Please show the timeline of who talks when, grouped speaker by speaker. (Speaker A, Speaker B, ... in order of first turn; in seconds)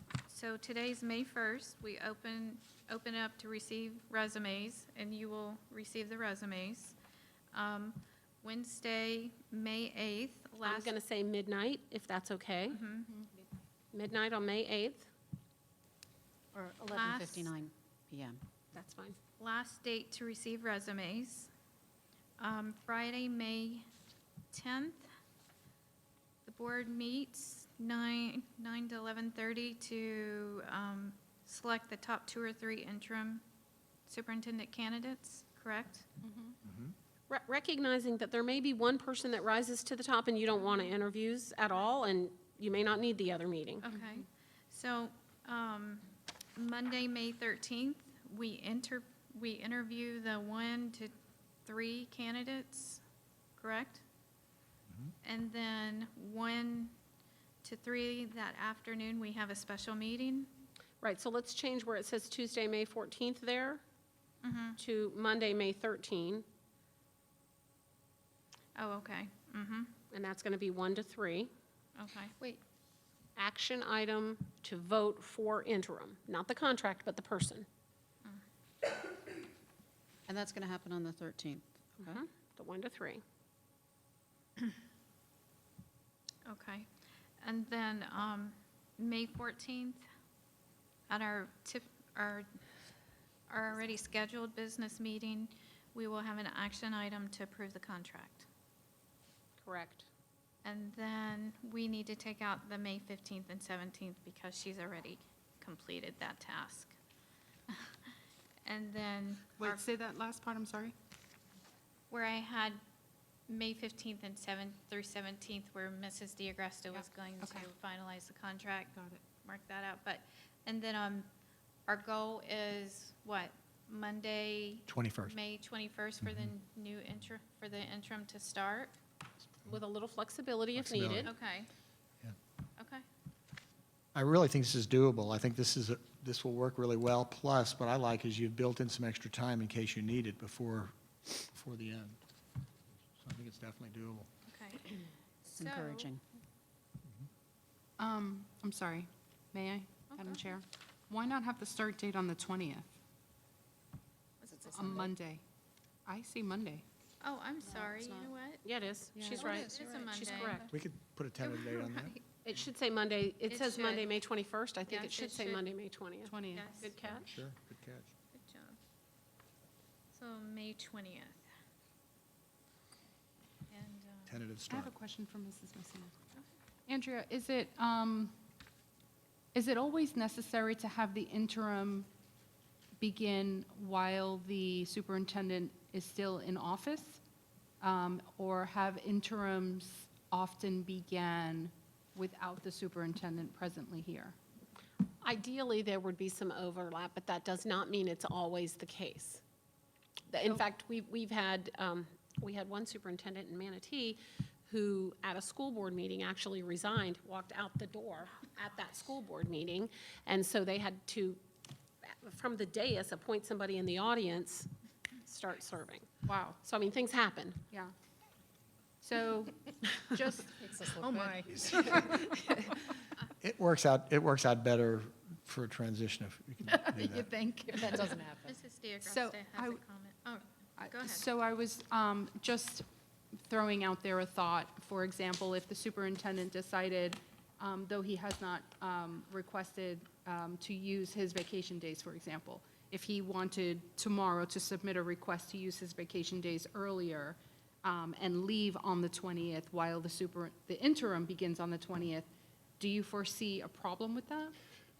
Speaker A: 0.3-7.0, 7.5-10.9, 12.7-13.1, 16.9-17.5, 19.4-21.5, 22.4-23.9, 24.5-25.1, 26.4-33.4, 34.0-36.0, 43.8-51.1, 51.6-53.0, 53.6-54.0, 55.2-56.9, 57.6-60.5, 64.4-64.8, 68.8-69.9, 72.0-72.3, 86.4-86.9, 87.4-90.0, 91.1-92.5, 93.5-98.5, 100.6-107.0, 107.7-108.0, 108.6-109.8, 112.1-112.8, 113.5-121.3, 121.9-128.9, 131.2-131.7, 132.8-133.0, 144.5-144.9, 145.4-146.1, 150.1-150.4, 154.4-154.9, 157.2-158.6, 159.4-160.7, 161.4-162.2, 163.5-164.1, 164.8-165.6, 166.5-167.0, 168.3-168.8, 170.1-171.4, 173.7-174.3, 228.4-231.2
Speaker B: 10.6-12.8, 13.9-15.1, 18.7-19.2, 37.3-43.8, 61.0-63.8, 64.8-66.4, 70.1-71.5, 73.3-77.7, 82.0-83.2, 99.6-100.1, 129.7-131.3, 158.6-160.7, 162.4-167.3, 195.2-199.4, 200.3-211.4, 212.1-214.7, 215.2-216.0, 216.6-217.6
Speaker C: 16.5-18.4, 80.3-82.2, 145.4-146.2, 154.5-155.1, 157.6-158.3, 159.5-160.1
Speaker D: 36.2-36.5, 43.9-44.2, 109.6-110.9, 116.9-117.7, 148.0-152.8, 154.7-155.4, 156.1-156.8, 159.2-159.5, 166.2-166.7, 174.7-176.1, 176.9-178.3, 179.5-182.1, 183.0-187.2, 187.8-194.3, 216.2-216.6, 219.0-222.3, 226.7-228.3, 229.0-229.8, 230.8-232.8, 233.3-252.3, 252.8-254.5
Speaker E: 36.6-36.9, 124.9-125.3, 126.2-126.5, 130.8-131.3, 134.1-142.2, 143.1-144.3, 160.7-162.1, 167.1-168.1, 174.3-174.9, 221.7-222.1, 223.4-227.3